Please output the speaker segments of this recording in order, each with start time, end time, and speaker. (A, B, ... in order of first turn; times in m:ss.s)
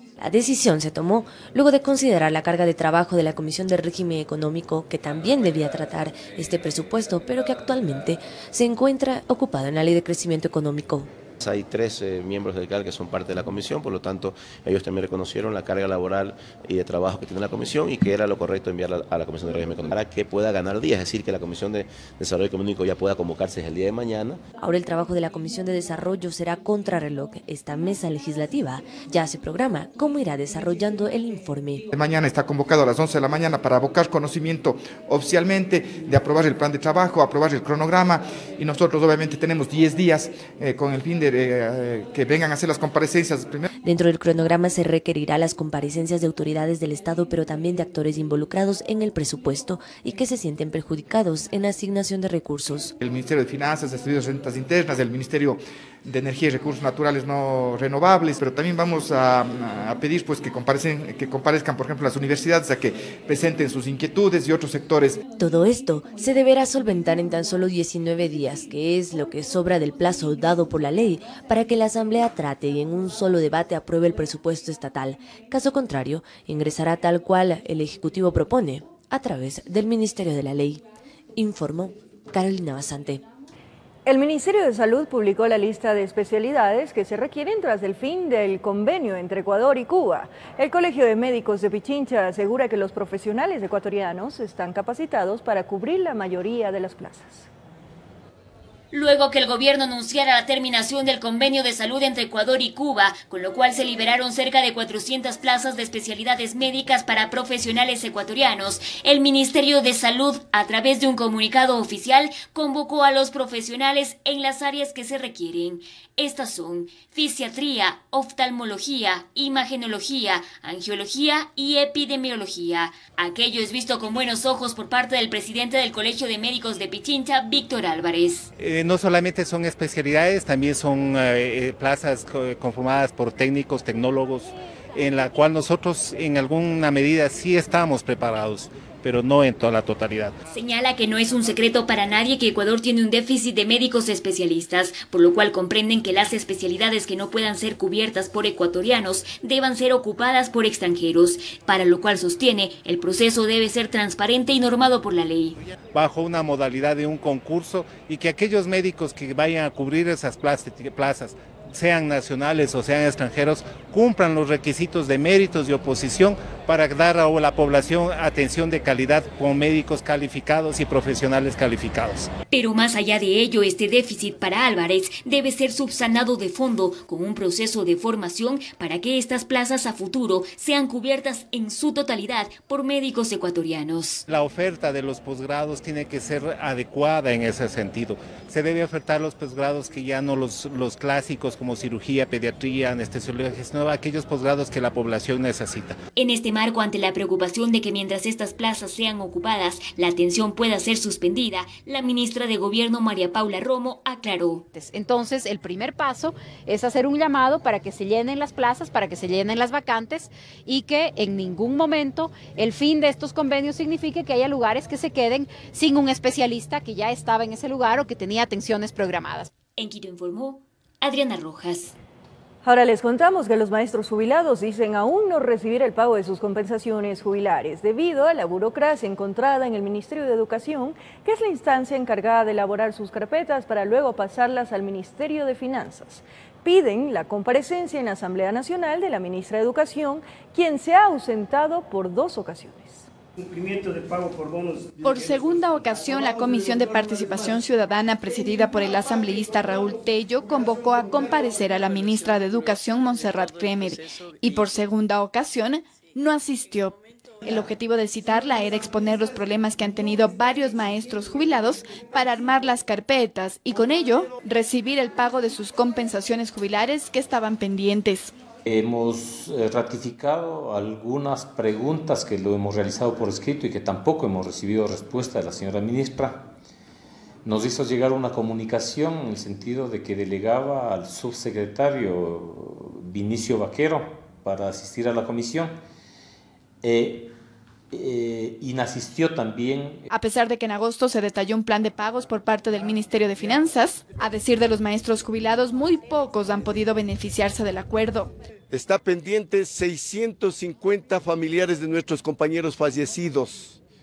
0:00.2-0:11.1 A
0:11.4-0:24.4 B
0:24.6-0:31.8 A
0:31.9-0:43.7 C
0:43.8-0:52.9 A
0:53.0-1:05.2 C
1:05.4-1:23.2 A
1:24.0-1:37.5 D
1:38.9-2:08.5 E
2:08.6-2:20.4 F
2:20.5-2:35.6 E
2:35.9-2:52.3 F
2:52.5-3:04.2 E
3:04.3-3:16.0 F
3:16.2-3:24.6 E
3:24.7-3:39.5 G
3:39.8-3:41.9 E
3:42.6-4:03.1 D
4:05.0-4:28.3 H
4:28.6-4:36.5 I
4:37.4-4:45.8 I
4:46.8-4:47.3 I
4:47.9-4:50.1 I
4:50.1-4:58.3 H
4:58.7-5:03.8 J